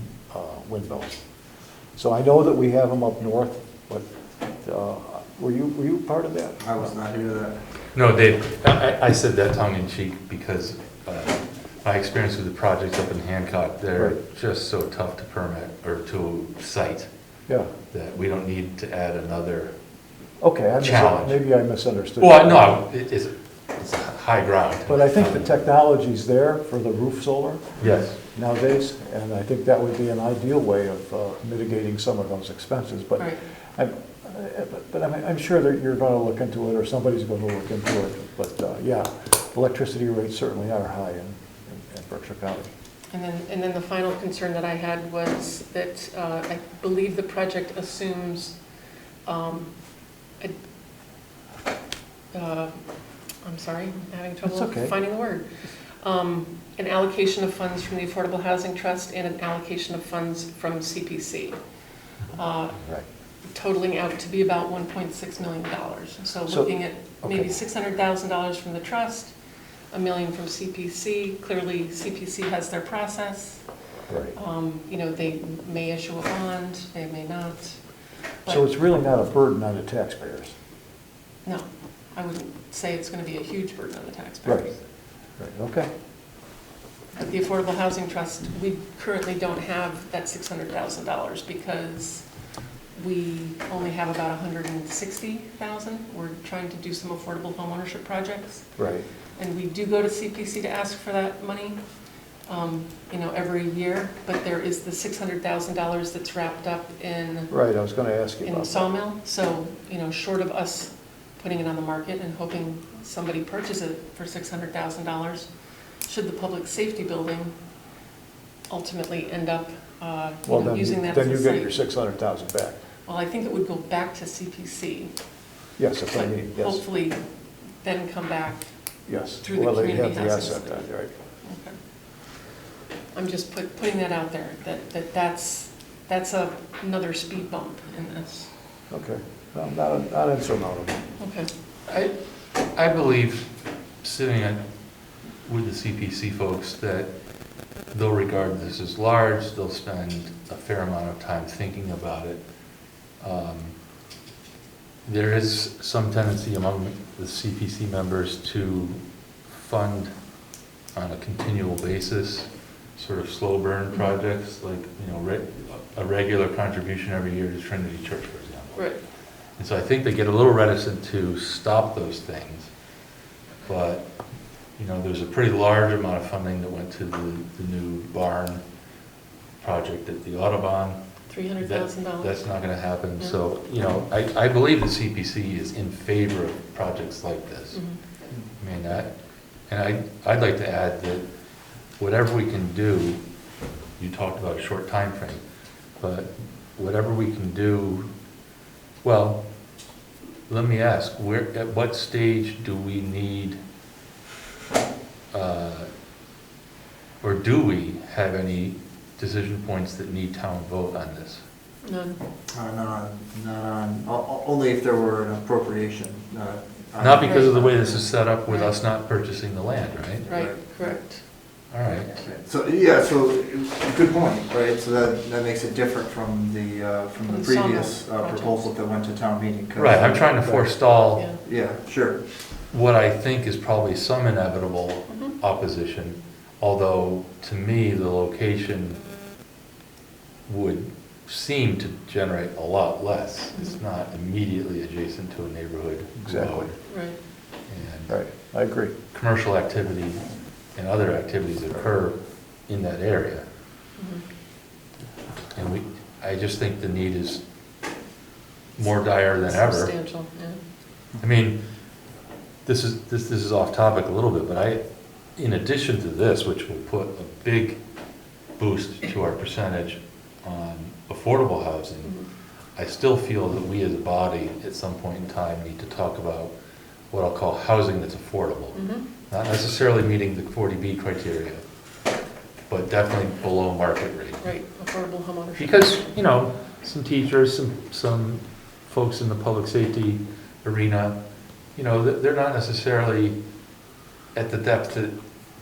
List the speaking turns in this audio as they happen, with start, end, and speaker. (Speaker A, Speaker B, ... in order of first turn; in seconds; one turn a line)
Speaker A: 0.3-1.2
Speaker A: 2.0-4.1
Speaker A: 4.6-6.8
Speaker B: 6.6-7.6
Speaker C: 8.0-17.1
Speaker C: 17.9-19.7
Speaker A: 20.4-22.8
Speaker C: 20.8-21.4
Speaker C: 22.2-25.5
Speaker A: 24.9-42.7
Speaker C: 27.8-28.2
Speaker D: 43.1-48.6
Speaker D: 49.3-49.7
Speaker D: 52.3-52.8
Speaker D: 53.4-55.5
Speaker A: 54.5-55.0
Speaker D: 56.0-61.6
Speaker D: 62.3-62.8
Speaker D: 63.5-69.3
Speaker A: 66.5-67.6
Speaker D: 69.9-73.6
Speaker A: 74.1-74.4
Speaker D: 74.3-77.8
Speaker D: 78.5-78.7
Speaker A: 78.5-80.5
Speaker D: 81.5-84.8
Speaker A: 85.4-85.9
Speaker D: 87.2-92.2
Speaker D: 93.0-98.7
Speaker A: 98.8-99.1
Speaker D: 99.4-101.8
Speaker D: 102.5-107.5
Speaker A: 107.5-108.9
Speaker D: 108.4-115.5
Speaker D: 116.0-117.5
Speaker D: 118.7-121.8
Speaker A: 120.5-122.8
Speaker D: 123.1-125.1
Speaker A: 125.8-126.8
Speaker D: 126.1-127.2
Speaker D: 127.8-128.7
Speaker A: 129.1-131.1
Speaker D: 129.4-130.9
Speaker D: 131.4-131.8
Speaker D: 133.1-138.5
Speaker A: 138.9-141.0
Speaker D: 141.2-141.5
Speaker C: 141.9-142.1
Speaker C: 142.7-143.5
Speaker C: 144.0-144.6
Speaker C: 145.4-147.1
Speaker C: 147.9-152.4
Speaker C: 153.2-153.7
Speaker C: 155.1-160.1
Speaker C: 160.9-168.8
Speaker D: 163.9-164.2
Speaker C: 169.6-172.7
Speaker C: 173.7-174.1
Speaker C: 174.8-178.6
Speaker C: 179.6-181.0
Speaker D: 181.3-182.4
Speaker C: 181.6-187.8
Speaker D: 187.7-188.0
Speaker C: 188.6-189.1
Speaker C: 189.7-191.2
Speaker C: 192.0-193.2
Speaker C: 194.0-195.4
Speaker C: 196.0-198.1
Speaker C: 199.0-199.4
Speaker C: 200.5-203.6
Speaker C: 205.3-205.9
Speaker C: 207.2-211.4
Speaker D: 211.8-212.2
Speaker B: 212.5-218.1
Speaker C: 217.0-220.3
Speaker D: 217.2-217.6
Speaker D: 218.5-218.8
Speaker D: 220.3-221.2
Speaker B: 220.3-221.0
Speaker C: 221.7-222.2
Speaker B: 222.1-230.2
Speaker D: 227.3-228.6
Speaker C: 229.8-231.3
Speaker D: 231.2-231.4
Speaker B: 231.4-232.2
Speaker C: 232.7-239.0
Speaker D: 235.1-235.3
Speaker C: 240.5-246.8
Speaker D: 243.5-243.8
Speaker A: 246.2-246.7
Speaker D: 246.8-247.2
Speaker C: 247.7-248.2
Speaker A: 248.1-248.9
Speaker C: 249.1-250.2
Speaker C: 250.8-253.5
Speaker D: 254.0-254.2
Speaker C: 255.6-257.4
Speaker C: 258.8-259.9
Speaker D: 259.5-260.6
Speaker C: 261.2-261.6
Speaker C: 262.7-264.8
Speaker C: 265.4-267.8
Speaker C: 268.6-272.1
Speaker C: 272.8-276.5
Speaker C: 277.1-281.6
Speaker D: 278.8-279.1
Speaker C: 282.7-284.5
Speaker D: 284.4-286.0
Speaker C: 285.6-291.2
Speaker C: 291.8-293.4
Speaker C: 294.4-295.1